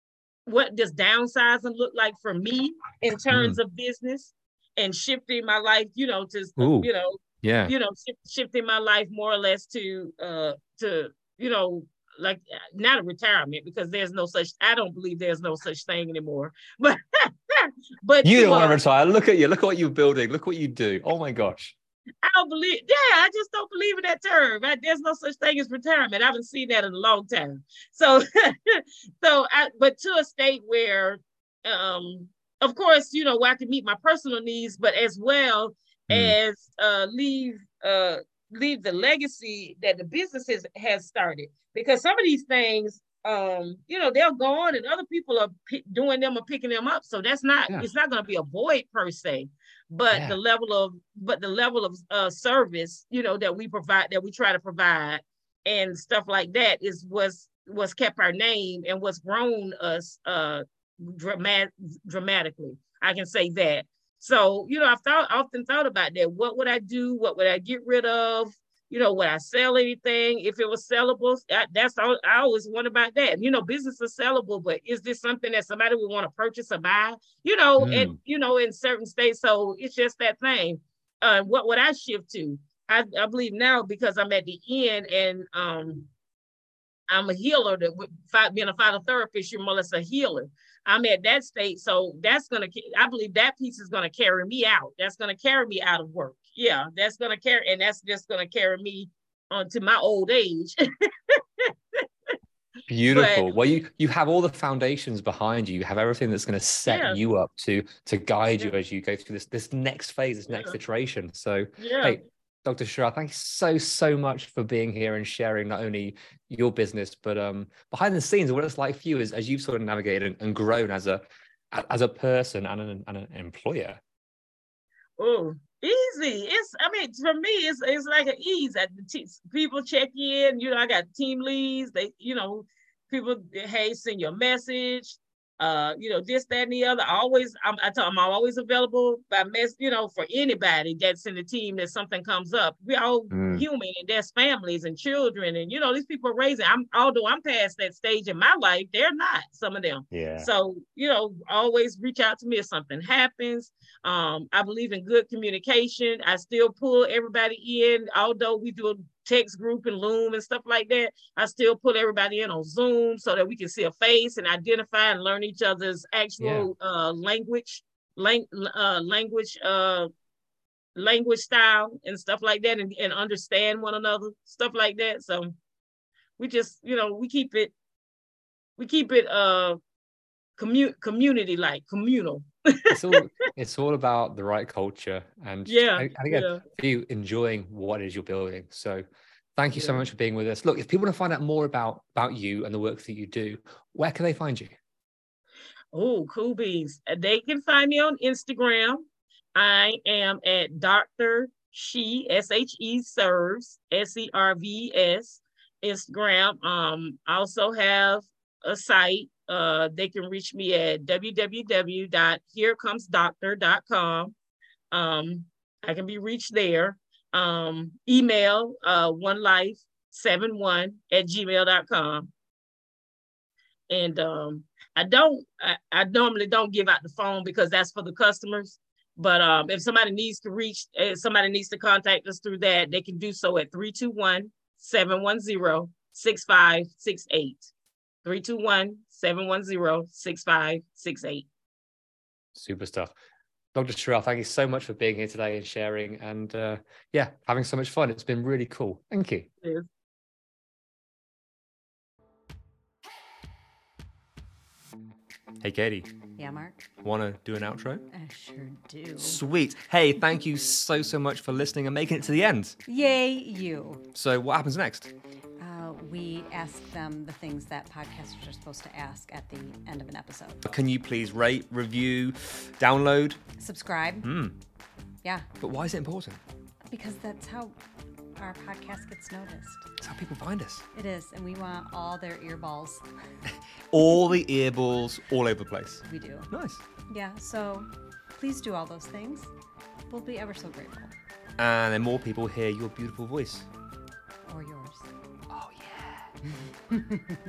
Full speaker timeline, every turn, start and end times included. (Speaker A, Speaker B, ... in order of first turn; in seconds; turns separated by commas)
Speaker A: 0.5-18.8, Speaker B: 3.3-3.6, Speaker B: 6.6-6.9, Speaker B: 7.4-7.7, Speaker B: 18.2-21.8, Speaker A: 22.2-86.1, Speaker B: 36.1-36.4, Speaker B: 50.1-50.4, Speaker B: 77.8-78.2, Speaker A: 87.1-100.8, Speaker A: 101.3-102.0, Speaker B: 102.9-124.0, Speaker A: 103.1-103.5, Speaker A: 106.9-107.2, Speaker A: 110.5-110.8, Speaker A: 111.8-112.2, Speaker A: 125.2-170.1, Speaker B: 143.3-143.7, Speaker B: 150.1-150.5, Speaker B: 166.4-166.7, Speaker A: 170.9-175.5, Speaker A: 176.4-177.7, Speaker A: 178.8-179.8, Speaker A: 180.6-183.0, Speaker B: 182.9-189.0, Speaker A: 185.7-186.6, Speaker B: 189.6-194.8, Speaker A: 189.7-190.1, Speaker A: 195.9-199.0, Speaker A: 199.6-214.3, Speaker A: 214.9-222.3, Speaker A: 223.9-237.7, Speaker A: 238.2-241.5, Speaker B: 242.6-243.2, Speaker B: 243.8-249.5, Speaker A: 249.6-249.9, Speaker B: 255.6-256.1, Speaker C: 256.4-256.9, Speaker B: 257.0-258.1, Speaker C: 258.1-259.4, Speaker B: 259.2-262.8, Speaker C: 262.9-264.1, Speaker B: 264.1-265.1, Speaker C: 265.6-270.7, Speaker B: 270.6-273.4, Speaker C: 273.6-274.3, Speaker B: 274.2-274.5, Speaker C: 275.2-275.5, Speaker B: 275.6-276.4, Speaker C: 276.9-277.8, Speaker C: 278.4-279.9, Speaker B: 280.0-280.8, Speaker C: 280.9-283.0, Speaker B: 283.9-286.8, Speaker C: 286.1-286.5, Speaker C: 287.1-289.5, Speaker C: 290.1-291.1, Speaker B: 291.6-293.7, Speaker C: 294.5-295.1, Speaker B: 295.5-296.3, Speaker C: 296.9-297.4